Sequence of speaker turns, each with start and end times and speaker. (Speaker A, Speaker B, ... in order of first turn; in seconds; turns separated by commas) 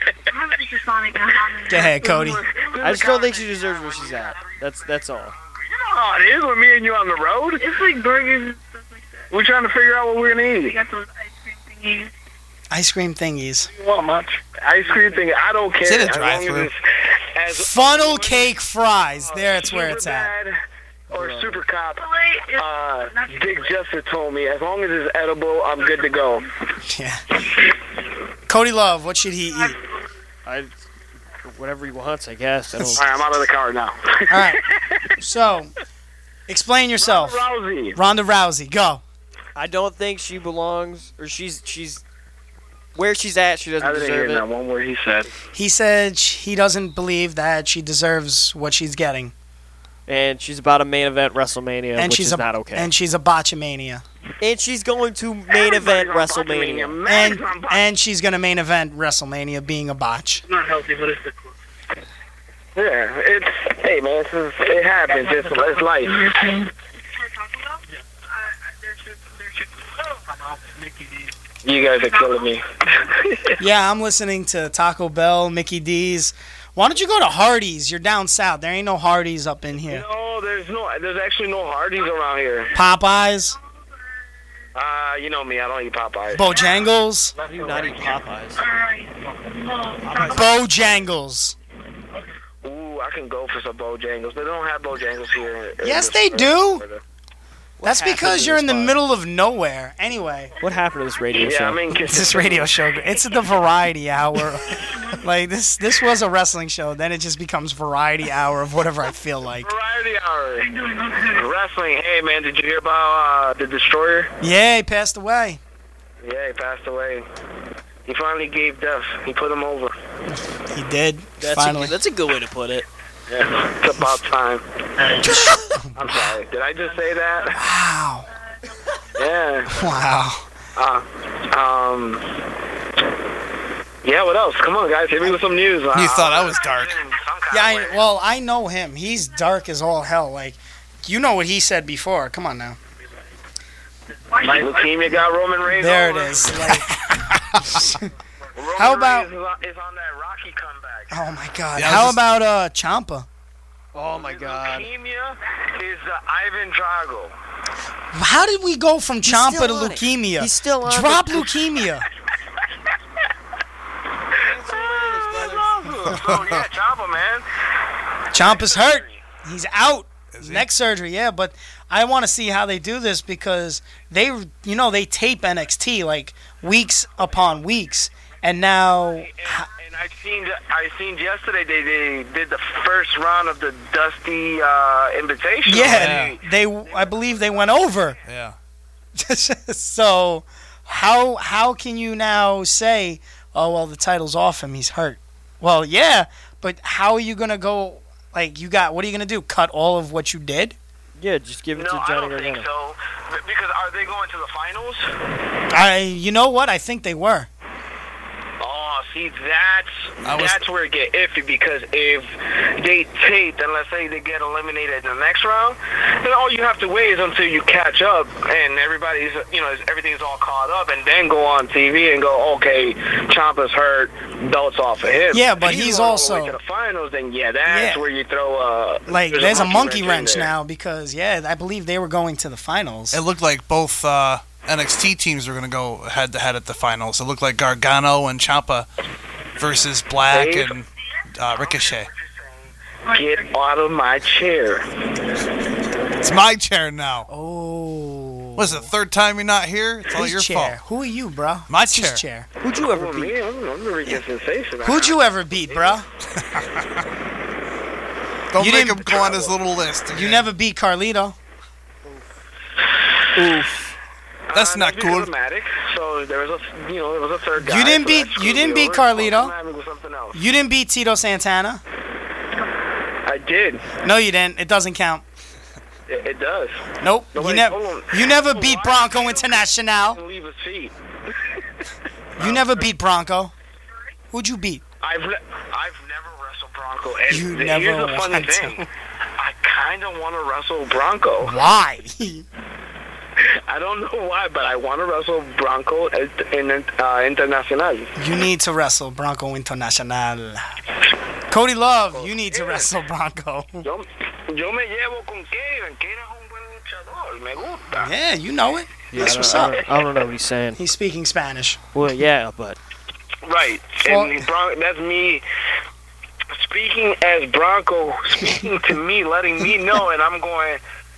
Speaker A: 0.3-3.2, Speaker B: 1.7-2.4, Speaker C: 1.9-4.6, Speaker D: 2.8-5.3, Speaker C: 5.4-7.7, Speaker A: 7.6-9.3, Speaker C: 9.3-10.8, Speaker A: 10.6-12.1, Speaker B: 12.7-13.7, Speaker C: 13.7-18.6, Speaker E: 15.8-16.7, Speaker B: 17.5-20.3, Speaker C: 19.1-20.6, Speaker C: 21.1-26.5, Speaker D: 21.1-21.6, Speaker A: 22.2-22.6, Speaker B: 26.9-27.2, Speaker B: 28.5-29.8, Speaker D: 30.5-30.8, Speaker D: 31.4-33.2, Speaker C: 33.0-35.1, Speaker B: 34.3-34.6, Speaker B: 35.2-35.7, Speaker B: 36.5-37.4, Speaker C: 37.0-38.0, Speaker B: 38.0-39.0, Speaker D: 39.6-42.0, Speaker D: 43.0-44.5, Speaker C: 43.8-45.3, Speaker B: 45.5-49.3, Speaker D: 50.1-52.9, Speaker B: 52.0-54.0, Speaker D: 54.4-57.0, Speaker C: 55.5-57.9, Speaker B: 57.0-60.5, Speaker A: 60.5-61.5, Speaker C: 62.8-66.3, Speaker A: 65.2-66.7, Speaker A: 67.3-67.8, Speaker A: 68.8-71.3, Speaker C: 71.6-73.6, Speaker B: 73.6-80.0, Speaker C: 79.8-82.7, Speaker B: 82.7-83.6, Speaker C: 84.8-86.7, Speaker B: 86.3-87.3, Speaker A: 87.4-90.4, Speaker D: 87.5-88.7, Speaker D: 90.0-90.6, Speaker B: 90.3-91.6, Speaker C: 92.6-97.0, Speaker B: 95.8-96.8, Speaker D: 97.8-99.0, Speaker B: 97.8-100.5, Speaker D: 100.6-102.0, Speaker C: 101.4-102.7, Speaker B: 102.0-109.7, Speaker C: 109.6-110.7, Speaker A: 110.8-111.4, Speaker C: 111.3-114.3, Speaker B: 114.4-115.6, Speaker C: 116.2-117.2, Speaker C: 118.1-119.9, Speaker B: 120.3-122.0, Speaker D: 121.4-122.9, Speaker C: 123.3-124.7, Speaker B: 125.3-126.4, Speaker C: 126.0-127.6, Speaker B: 127.5-128.3, Speaker C: 129.2-129.8, Speaker B: 129.7-130.5, Speaker C: 130.8-132.3, Speaker C: 134.0-138.1, Speaker E: 135.9-137.1, Speaker B: 137.5-142.8, Speaker A: 144.3-145.1, Speaker C: 144.4-146.8, Speaker B: 145.7-148.1, Speaker C: 148.6-151.2, Speaker B: 148.8-149.3, Speaker B: 151.1-153.3, Speaker E: 151.8-152.2, Speaker D: 153.9-154.9, Speaker C: 154.1-157.3, Speaker B: 158.1-162.1, Speaker D: 159.2-161.6, Speaker D: 164.4-165.9, Speaker C: 164.5-167.5, Speaker E: 166.1-166.6, Speaker C: 168.3-169.2, Speaker B: 168.3-179.7, Speaker E: 170.3-170.7, Speaker C: 179.0-188.2, Speaker B: 185.7-188.2, Speaker E: 185.8-186.4, Speaker E: 188.2-188.6, Speaker B: 189.2-200.8, Speaker D: 201.2-202.7, Speaker C: 201.7-205.0, Speaker B: 205.7-207.5, Speaker C: 208.6-230.5, Speaker E: 210.2-210.6, Speaker B: 225.3-226.6, Speaker B: 227.7-228.1, Speaker B: 229.1-233.2, Speaker E: 233.1-238.9, Speaker E: 239.6-242.1, Speaker C: 240.3-240.8, Speaker C: 241.5-244.9, Speaker E: 246.2-247.3, Speaker B: 247.3-248.9, Speaker E: 248.6-250.8, Speaker B: 250.1-252.5, Speaker E: 251.7-252.2, Speaker D: 252.6-253.4, Speaker C: 252.8-256.0, Speaker B: 254.8-256.1, Speaker E: 256.4-256.9, Speaker E: 258.5-260.5, Speaker B: 258.6-259.5, Speaker B: 260.1-261.4, Speaker D: 263.4-263.9, Speaker C: 264.5-270.4, Speaker E: 264.5-265.3, Speaker B: 267.6-269.5, Speaker B: 270.3-271.8, Speaker C: 273.3-274.0, Speaker B: 274.0-275.2, Speaker C: 276.1-280.9, Speaker B: 277.0-280.2, Speaker B: 282.4-283.5, Speaker C: 282.4-282.8, Speaker B: 284.3-284.8, Speaker C: 285.0-288.9, Speaker B: 287.3-288.9, Speaker C: 289.4-291.6, Speaker B: 291.4-292.5, Speaker C: 293.4-298.1, Speaker B: 298.2-300.7, Speaker B: 301.5-303.9, Speaker C: 302.1-302.9, Speaker C: 303.8-308.1, Speaker B: 307.9-309.8, Speaker D: 309.1-310.8, Speaker C: 309.2-309.8, Speaker B: 310.8-311.8, Speaker D: 311.9-312.8, Speaker C: 313.4-315.4, Speaker B: 314.0-314.5, Speaker C: 316.5-320.8